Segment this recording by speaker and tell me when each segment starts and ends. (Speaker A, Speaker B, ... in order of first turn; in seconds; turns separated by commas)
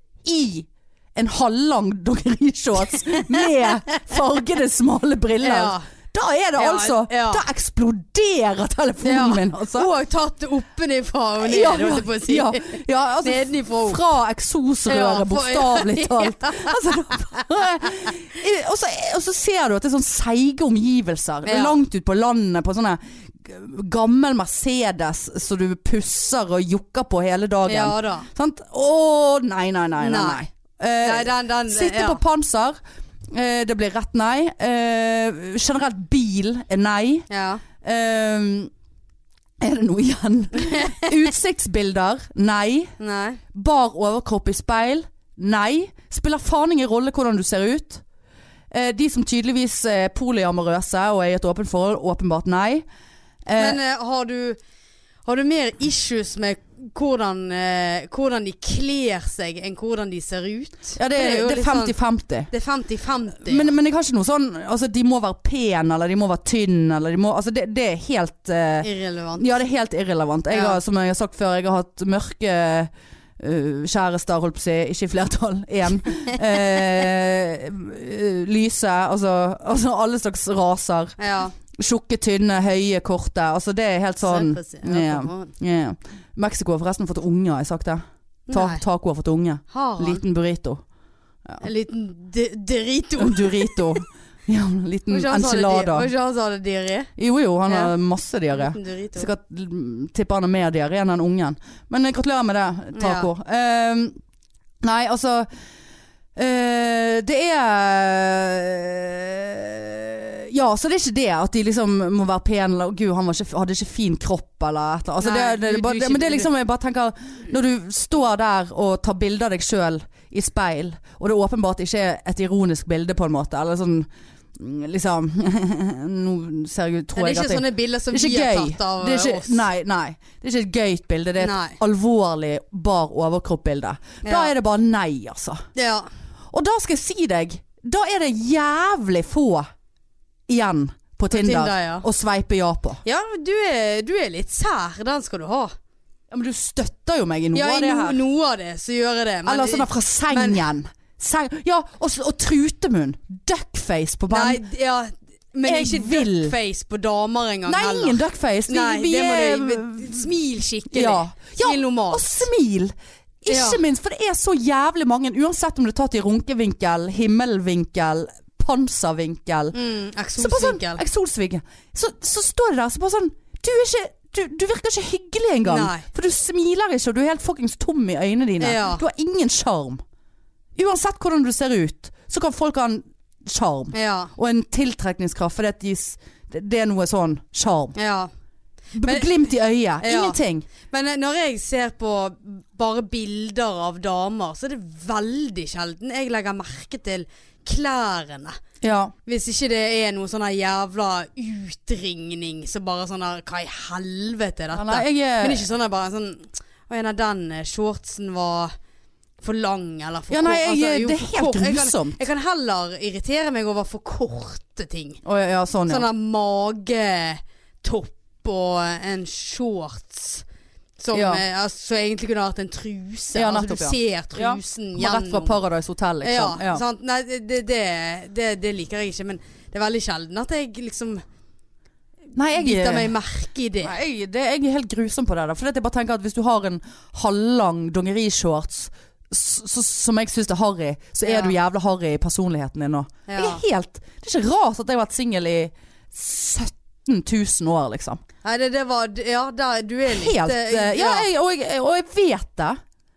Speaker A: 0.2-9.9, Speaker B: 5.4-5.9, Speaker B: 6.6-7.4, Speaker B: 9.0-14.0, Speaker A: 11.4-32.8, Speaker B: 14.9-17.1, Speaker B: 21.4-21.8, Speaker B: 27.7-28.3, Speaker B: 30.0-30.4, Speaker B: 31.0-32.2, Speaker A: 33.3-37.3, Speaker B: 37.3-37.6, Speaker A: 37.8-38.7, Speaker A: 39.6-42.9, Speaker B: 40.7-41.1, Speaker B: 43.0-43.4, Speaker A: 43.5-48.0, Speaker A: 48.7-52.9, Speaker A: 53.5-53.8, Speaker B: 53.6-54.6, Speaker B: 55.2-62.0, Speaker A: 61.0-62.5, Speaker B: 62.5-63.7, Speaker A: 63.4-81.2, Speaker B: 68.8-69.5, Speaker B: 70.5-70.8, Speaker B: 81.2-81.5, Speaker A: 81.8-90.8, Speaker B: 84.2-85.5, Speaker B: 88.5-88.8, Speaker B: 89.7-90.2, Speaker B: 91.6-94.0, Speaker A: 93.2-96.1, Speaker B: 95.1-97.1, Speaker A: 97.2-104.2, Speaker B: 97.7-97.9, Speaker B: 98.5-99.3, Speaker B: 103.0-103.3, Speaker A: 104.8-105.5, Speaker A: 106.4-135.6, Speaker B: 115.2-116.5, Speaker B: 127.2-129.7, Speaker B: 131.4-131.8, Speaker B: 134.2-134.5, Speaker B: 135.8-136.1, Speaker A: 136.5-139.7, Speaker A: 140.5-143.0, Speaker B: 141.3-142.1, Speaker B: 143.1-145.7, Speaker A: 146.3-148.2, Speaker B: 147.5-150.7, Speaker A: 149.5-154.6, Speaker B: 154.3-162.5, Speaker A: 155.7-156.5, Speaker A: 157.7-160.2, Speaker A: 160.9-169.8, Speaker B: 163.5-163.8, Speaker B: 169.7-171.0, Speaker A: 170.4-180.0, Speaker B: 175.7-176.1, Speaker B: 178.6-179.0, Speaker A: 180.8-188.0, Speaker B: 183.9-184.3, Speaker B: 187.9-188.3, Speaker A: 188.9-190.7, Speaker B: 189.0-189.3, Speaker B: 190.0-198.6, Speaker A: 198.8-199.1, Speaker B: 199.3-208.8, Speaker A: 204.7-205.6, Speaker B: 209.4-215.2, Speaker A: 210.3-212.2, Speaker A: 215.2-216.1, Speaker B: 215.9-220.4, Speaker B: 221.0-225.6, Speaker A: 221.1-221.4, Speaker A: 223.3-226.8, Speaker B: 226.2-231.2, Speaker A: 232.3-233.1, Speaker B: 232.5-234.0, Speaker A: 233.8-248.2, Speaker B: 241.2-241.6, Speaker B: 243.3-243.6, Speaker B: 248.4-251.3, Speaker A: 250.1-252.8